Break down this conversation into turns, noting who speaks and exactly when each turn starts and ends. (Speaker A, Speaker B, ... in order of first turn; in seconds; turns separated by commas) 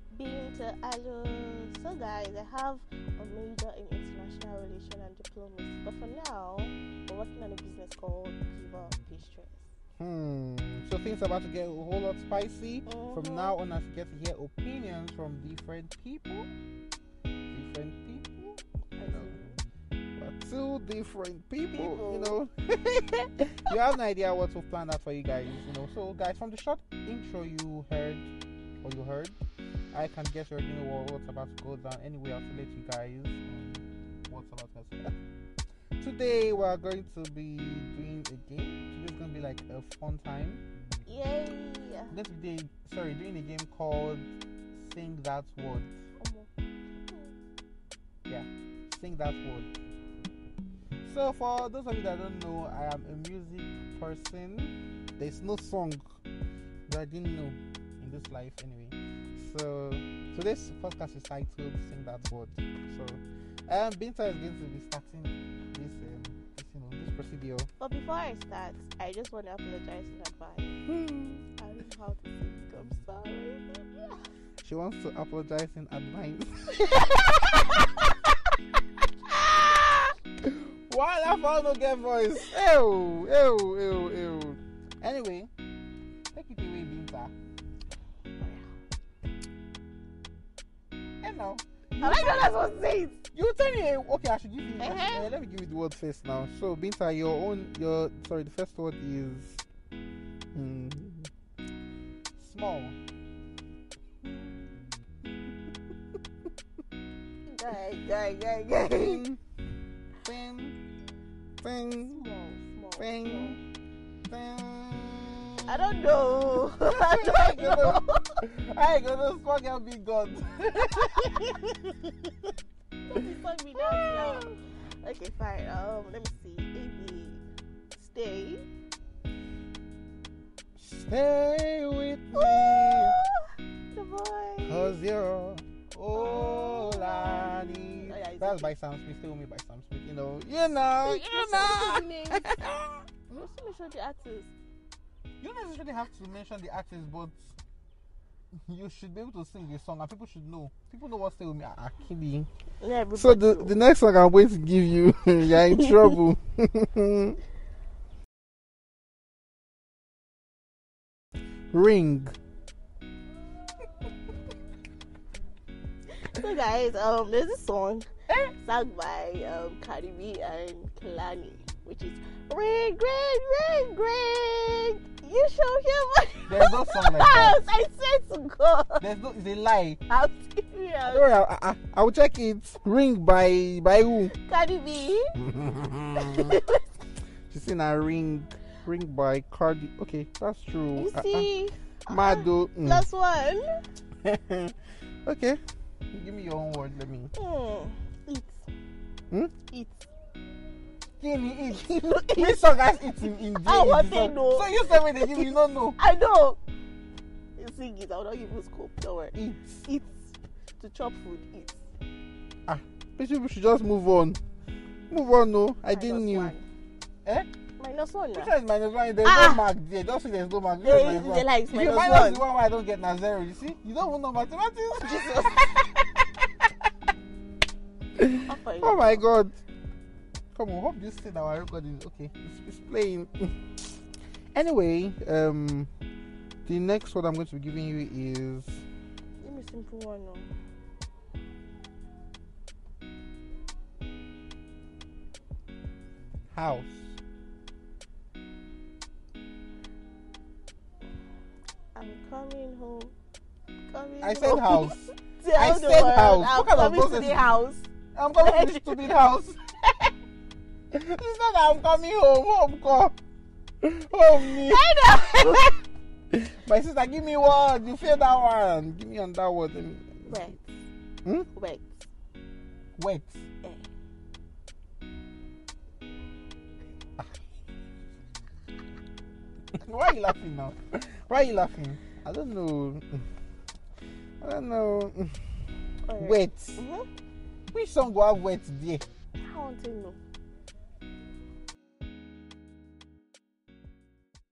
Speaker A: 0.1-9.7, Speaker B: 10.0-16.5, Speaker A: 12.9-13.6, Speaker B: 17.5-19.3, Speaker A: 19.0-19.6, Speaker B: 20.2-28.3, Speaker A: 21.7-22.4, Speaker B: 28.8-29.4, Speaker B: 29.9-35.1, Speaker B: 36.0-40.6, Speaker A: 41.1-42.1, Speaker B: 42.1-45.9, Speaker A: 46.2-46.5, Speaker B: 48.3-49.7, Speaker B: 51.0-56.0, Speaker B: 56.9-67.7, Speaker A: 67.8-70.8, Speaker B: 70.9-71.4, Speaker A: 71.6-74.2, Speaker B: 74.6-78.1, Speaker A: 76.8-77.9, Speaker B: 79.3-79.9, Speaker A: 79.4-80.0, Speaker B: 80.4-85.5, Speaker B: 86.3-87.3, Speaker A: 88.4-88.7, Speaker B: 91.2-92.6, Speaker A: 92.0-93.2, Speaker B: 93.3-99.7, Speaker A: 94.8-95.3, Speaker B: 100.5-101.3, Speaker B: 102.4-103.0, Speaker A: 107.5-109.2, Speaker B: 108.9-109.4, Speaker B: 110.2-110.8, Speaker B: 111.6-112.2, Speaker A: 112.1-113.6, Speaker B: 113.0-113.6, Speaker B: 114.3-115.9, Speaker A: 115.7-118.4, Speaker B: 116.9-122.5, Speaker A: 123.1-127.4, Speaker B: 123.8-124.5, Speaker A: 128.0-128.6, Speaker B: 130.8-133.2, Speaker A: 132.3-134.9, Speaker B: 134.7-143.1, Speaker A: 136.1-138.7, Speaker A: 141.0-142.6, Speaker A: 143.3-144.5, Speaker B: 145.4-147.6, Speaker B: 148.7-152.5, Speaker A: 152.8-153.8, Speaker B: 153.1-157.4, Speaker A: 155.5-156.2, Speaker B: 161.7-162.3, Speaker A: 166.2-179.1, Speaker B: 176.5-177.6, Speaker B: 179.0-180.0, Speaker A: 180.1-181.3, Speaker B: 181.1-184.3, Speaker A: 184.3-185.4, Speaker B: 185.4-186.6, Speaker A: 186.2-186.8, Speaker B: 187.5-191.5, Speaker A: 190.9-193.8, Speaker B: 192.1-193.1, Speaker B: 194.2-195.6, Speaker B: 196.1-197.3, Speaker A: 197.3-198.7, Speaker A: 199.7-200.1, Speaker B: 201.2-206.0, Speaker A: 201.9-206.6, Speaker A: 207.6-211.9, Speaker B: 209.3-209.9, Speaker B: 212.7-214.4, Speaker B: 215.1-216.6, Speaker A: 215.9-216.6, Speaker A: 217.8-218.5, Speaker B: 218.3-225.9, Speaker A: 219.2-219.6, Speaker A: 220.8-222.5, Speaker A: 224.9-226.1, Speaker B: 228.2-229.6, Speaker A: 228.5-229.2, Speaker B: 230.5-233.6, Speaker B: 234.6-235.9, Speaker B: 236.7-238.8, Speaker A: 239.4-240.6, Speaker B: 246.5-247.2, Speaker A: 251.9-253.1, Speaker A: 253.9-259.2, Speaker B: 254.2-257.6, Speaker B: 258.1-260.1, Speaker B: 260.9-263.1, Speaker B: 263.8-265.6, Speaker A: 264.6-265.8, Speaker B: 266.3-270.5, Speaker A: 270.3-270.7, Speaker A: 271.5-272.1, Speaker B: 273.0-273.4, Speaker A: 273.6-273.9, Speaker B: 279.8-283.3, Speaker B: 284.4-285.5, Speaker A: 286.1-287.1, Speaker B: 286.2-286.8, Speaker B: 287.7-289.0, Speaker A: 289.4-290.2